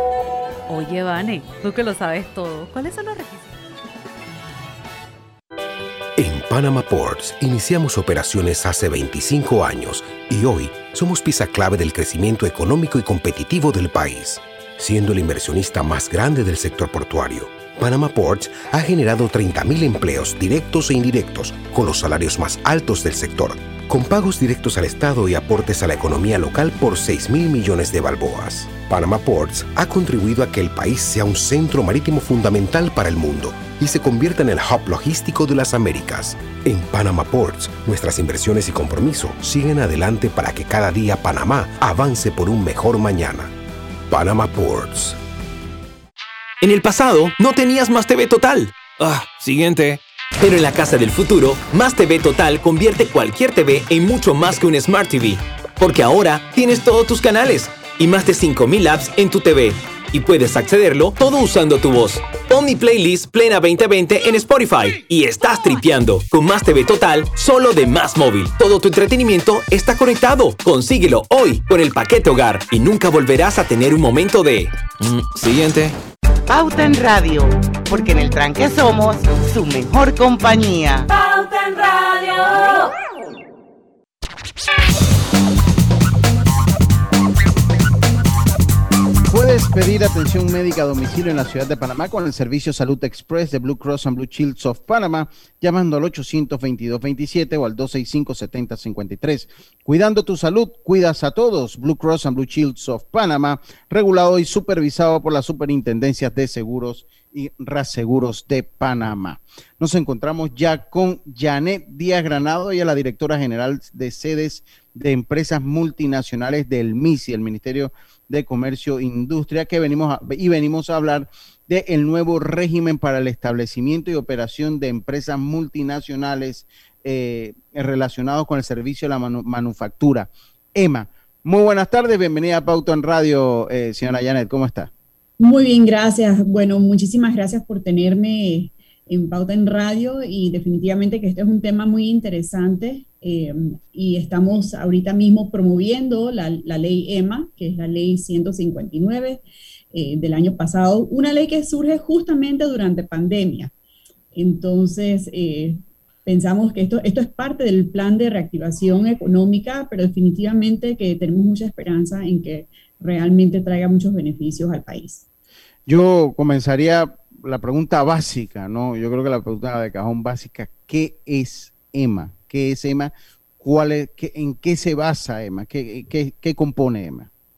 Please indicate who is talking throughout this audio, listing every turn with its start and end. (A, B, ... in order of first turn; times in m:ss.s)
0:00.7-0:03.5 A
0:06.2-0:43.5 B
0:44.1-0:45.2 B
0:46.6-1:16.0 C
1:16.5-1:21.1 D
1:29.3-2:14.9 E
2:15.4-2:33.7 F
2:34.3-2:45.2 F
2:45.9-2:53.1 E
2:53.6-2:57.3 E